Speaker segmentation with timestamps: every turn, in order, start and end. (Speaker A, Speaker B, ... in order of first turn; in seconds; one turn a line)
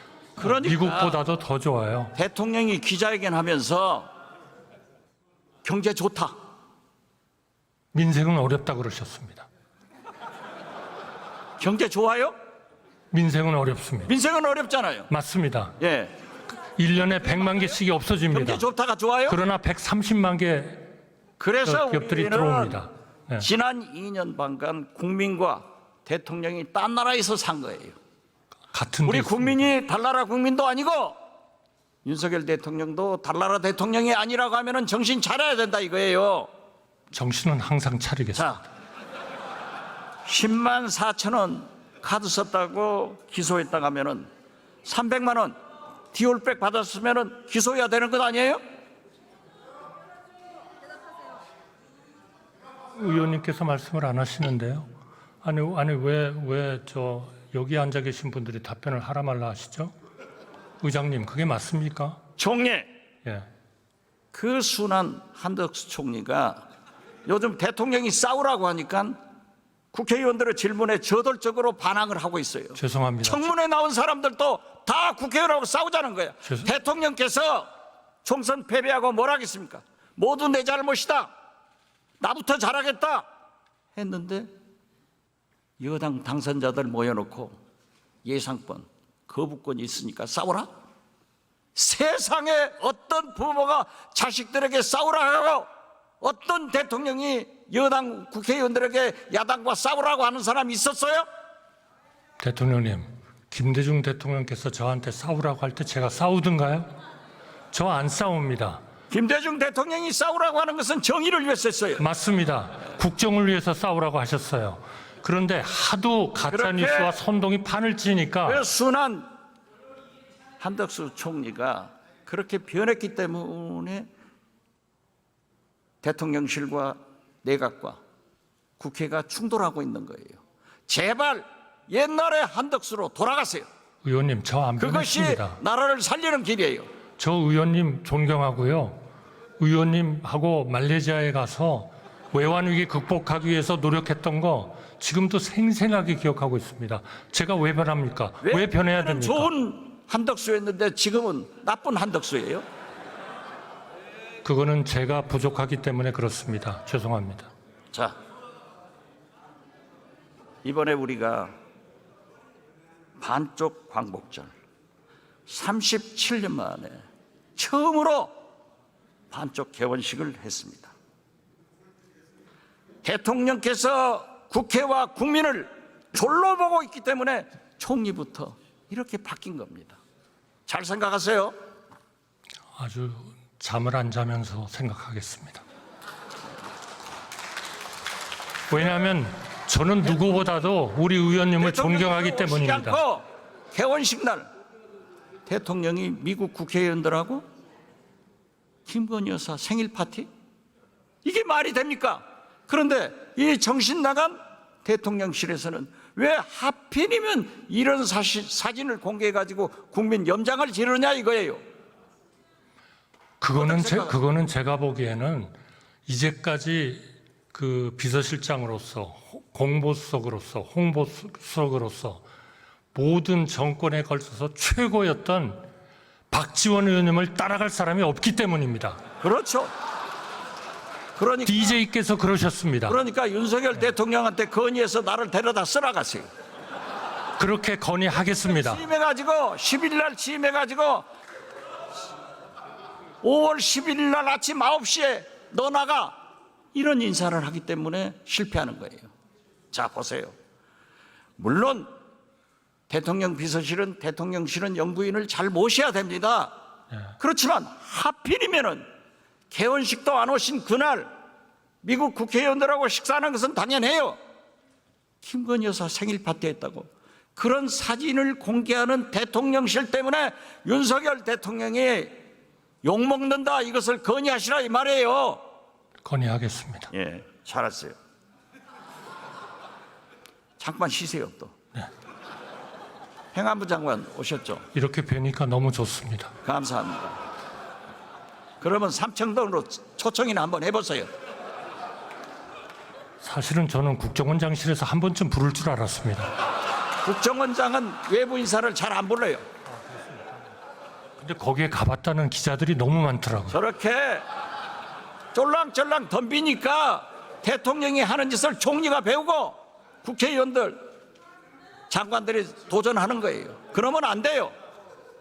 Speaker A: 0.4-1.2
Speaker B: 0.4-2.1
Speaker A: 2.1-4.1
Speaker A: 5.6-6.3
Speaker B: 7.9-9.5
Speaker A: 11.6-12.3
Speaker B: 13.1-14.1
Speaker A: 14.1-15.1
Speaker B: 15.1-15.8
Speaker A: 15.8-16.1
Speaker B: 16.8-18.6
Speaker A: 18.3-19.4
Speaker B: 19.3-20.9
Speaker A: 21.4-22.8
Speaker B: 21.6-23.5
Speaker A: 23.4-27.9
Speaker B: 28.7-29.7
Speaker A: 29.1-31.2
Speaker A: 32.0-36.5
Speaker B: 37.1-38.6
Speaker A: 38.4-38.6
Speaker A: 40.3-44.3
Speaker A: 44.8-45.6
Speaker A: 46.1-48.6
Speaker B: 53.0-54.9
Speaker B: 55.4-59.9
Speaker B: 60.8-62.2
Speaker A: 62.4-62.9
Speaker A: 64.3-66.7
Speaker A: 67.3-69.2
Speaker A: 69.9-77.7
Speaker B: 72.8-73.5
Speaker B: 76.5-76.7
Speaker A: 78.2-81.3
Speaker A: 82.2-83.3
Speaker A: 84.0-84.5
Speaker A: 85.8-87.6
Speaker A: 88.2-90.7
Speaker A: 91.8-95.7
Speaker A: 96.2-101.3
Speaker B: 102.4-106.9
Speaker B: 107.7-108.8
Speaker A: 109.1-112.0
Speaker B: 112.0-118.6
Speaker A: 116.5-117.1
Speaker A: 118.5-119.3
Speaker A: 120.6-124.1
Speaker A: 126.0-128.0
Speaker A: 128.8-133.7
Speaker B: 134.0-135.6
Speaker A: 134.8-136.9
Speaker B: 137.2-139.0
Speaker B: 139.6-149.5
Speaker A: 148.4-152.7
Speaker B: 154.4-157.5
Speaker A: 160.6-161.5
Speaker A: 163.2-164.5
Speaker A: 165.5-167.0
Speaker A: 167.6-168.3
Speaker A: 169.3-170.9
Speaker A: 173.0-180.0
Speaker A: 180.7-181.6
Speaker B: 182.8-185.6
Speaker B: 188.7-193.0
Speaker A: 191.6-194.5
Speaker A: 195.5-197.4
Speaker A: 198.9-200.3
Speaker A: 201.2-211.6
Speaker B: 213.4-215.5
Speaker A: 213.6-214.2
Speaker B: 216.1-222.2
Speaker B: 222.9-225.7
Speaker B: 226.3-229.0
Speaker A: 229.2-229.7
Speaker A: 231.2-231.7
Speaker B: 231.5-233.0
Speaker A: 232.9-236.3
Speaker B: 237.4-238.8
Speaker A: 238.5-241.1
Speaker A: 243.2-246.2
Speaker A: 246.7-249.1
Speaker A: 249.7-250.3
Speaker A: 251.4-251.9
Speaker A: 252.9-256.5
Speaker A: 257.2-258.9
Speaker A: 259.5-261.1
Speaker A: 261.8-264.2
Speaker A: 265.2-272.2
Speaker A: 272.8-275.4
Speaker B: 276.0-276.9
Speaker A: 276.9-278.0
Speaker A: 280.6-281.5
Speaker A: 283.3-284.6
Speaker B: 284.7-286.3
Speaker A: 286.4-287.2
Speaker A: 288.6-291.1
Speaker B: 293.2-296.3
Speaker A: 297.0-299.4
Speaker B: 299.7-300.4
Speaker B: 301.2-303.6
Speaker A: 303.5-304.2
Speaker A: 305.3-310.8
Speaker A: 311.9-314.5